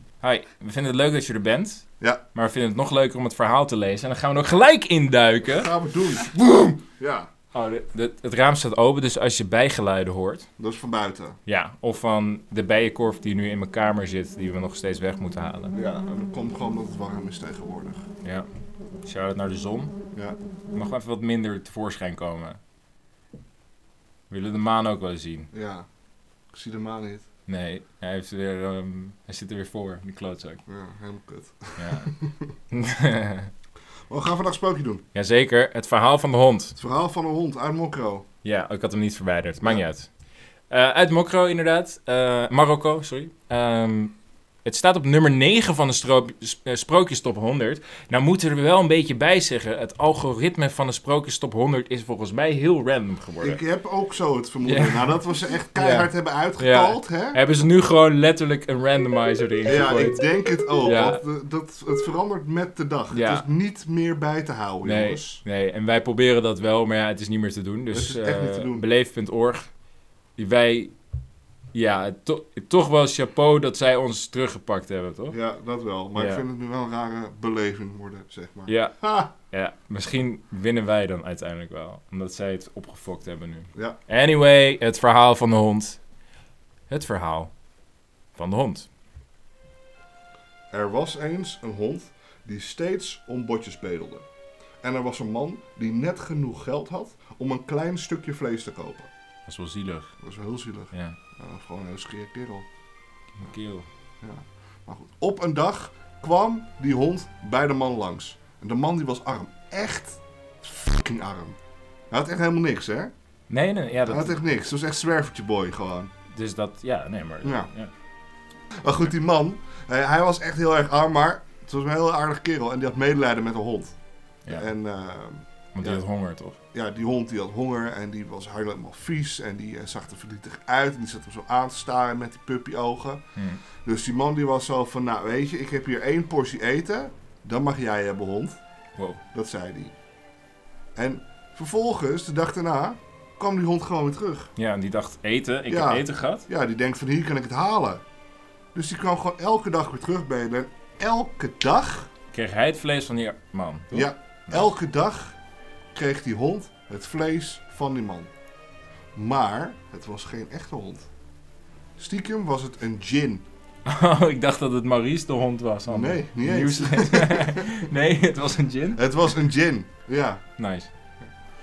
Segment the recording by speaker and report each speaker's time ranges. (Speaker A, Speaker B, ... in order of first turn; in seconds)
Speaker A: 0.2-5.7, 7.5-10.5, 11.4-15.7, 19.0-19.9, 20.7-22.6, 24.3-25.5, 27.5-30.6, 31.8-32.1, 32.7-33.5, 35.1-36.8, 38.4-40.1, 40.7-53.6, 54.6-55.1, 55.7-60.2, 60.8-61.2, 63.1-63.5, 64.8-69.7, 70.4-70.9, 71.7-75.3, 76.1-76.4, 78.7-79.0, 79.5-86.0, 86.9-87.5, 88.3-88.9, 99.5-100.1, 103.4-103.8, 113.5-114.3, 116.3-117.9, 125.7-126.6, 133.3-133.6, 144.6-146.4, 152.3-154.7, 163.8-169.0, 170.6-170.9
Speaker B: 5.4-7.3, 10.6-11.4, 15.7-18.0, 25.5-25.9, 26.5-27.2, 30.7-32.5, 34.1-35.0, 36.8-38.2, 53.4-57.4, 59.6-65.4, 67.9-68.8, 75.3-79.3, 90.7-94.2, 94.8-99.1, 100.2-102.7, 104.2-111.6, 112.1-113.1, 114.0-116.1, 117.4-117.7, 118.8-123.9, 124.5-126.0, 126.7-133.2, 133.8-138.6, 139.3-139.9, 140.9-144.5, 145.7-148.0, 148.7-152.1, 153.9-155.3, 155.9-158.3, 159.1-161.1, 162.0-163.4, 165.9-167.8, 168.9-170.4